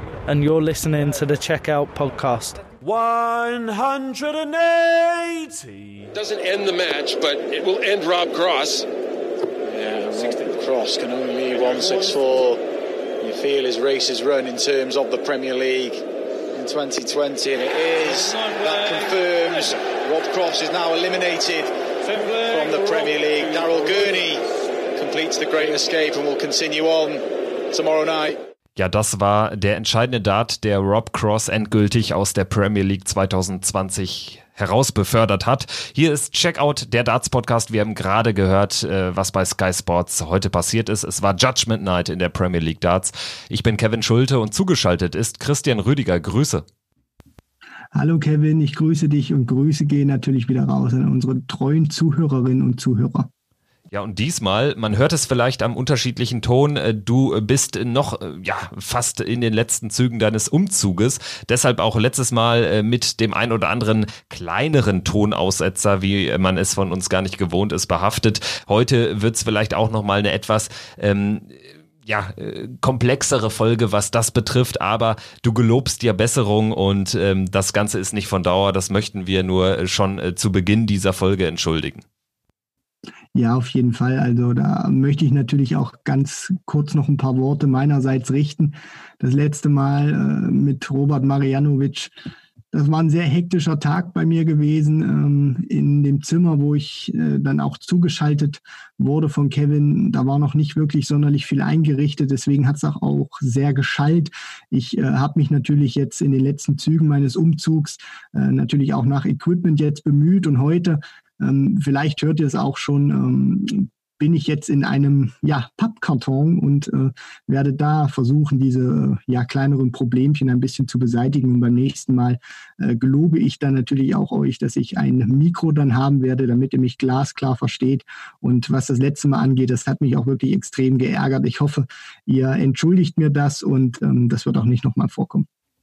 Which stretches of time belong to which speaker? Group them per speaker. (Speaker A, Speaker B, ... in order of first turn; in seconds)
Speaker A: 0.3-2.6
Speaker B: 2.8-6.1
Speaker C: 6.1-8.9
Speaker D: 9.7-12.6, 13.2-16.0, 16.6-24.4, 25.0-27.2, 27.7-28.4
Speaker E: 28.8-46.6, 53.9-71.5, 72.0-82.0
Speaker F: 48.0-53.3, 83.3-92.1, 92.7-135.5